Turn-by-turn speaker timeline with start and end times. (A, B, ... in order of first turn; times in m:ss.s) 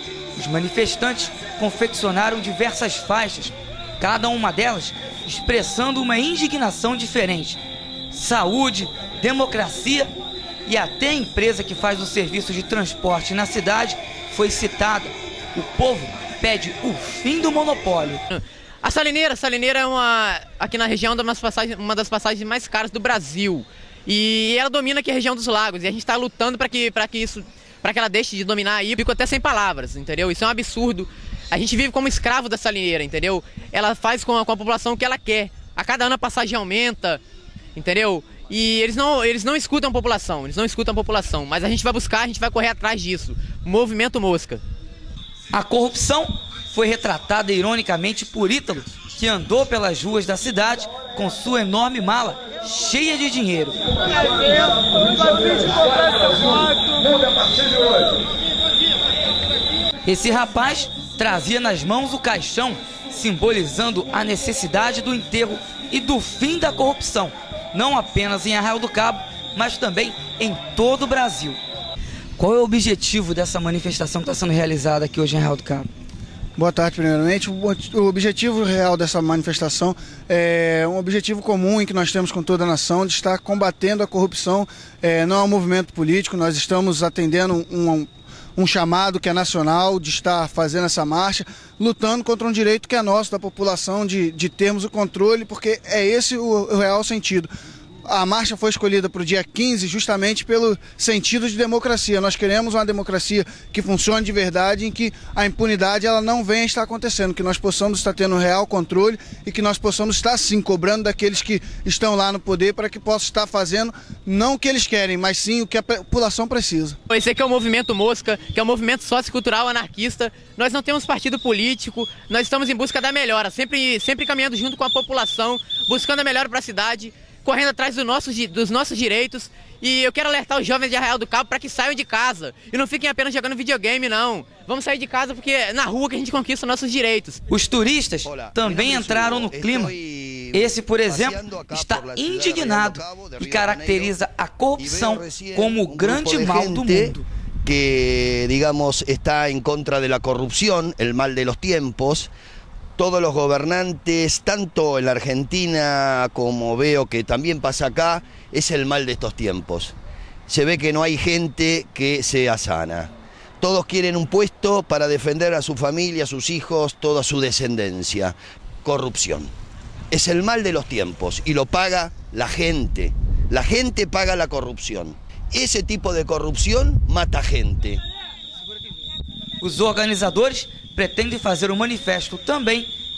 0:00.4-0:07.6 A
0:08.1-0:10.1 A
0:10.7-0:18.2 A
0:18.3-0:37.2 B
0:37.7-0:44.6 B
0:45.5-0:53.8 A
1:00.0-1:11.6 A
1:12.4-1:15.9 A
1:16.6-1:37.5 C
1:38.0-1:57.0 C
1:57.1-2:17.4 B
2:17.5-2:19.9 A
2:18.2-2:24.1 D
2:20.5-2:27.2 A
2:24.8-2:32.3 D
2:33.0-2:39.9 D
2:40.5-2:43.1 D
2:43.6-2:49.5 D
2:50.1-2:58.0 D
2:59.6-3:02.9 A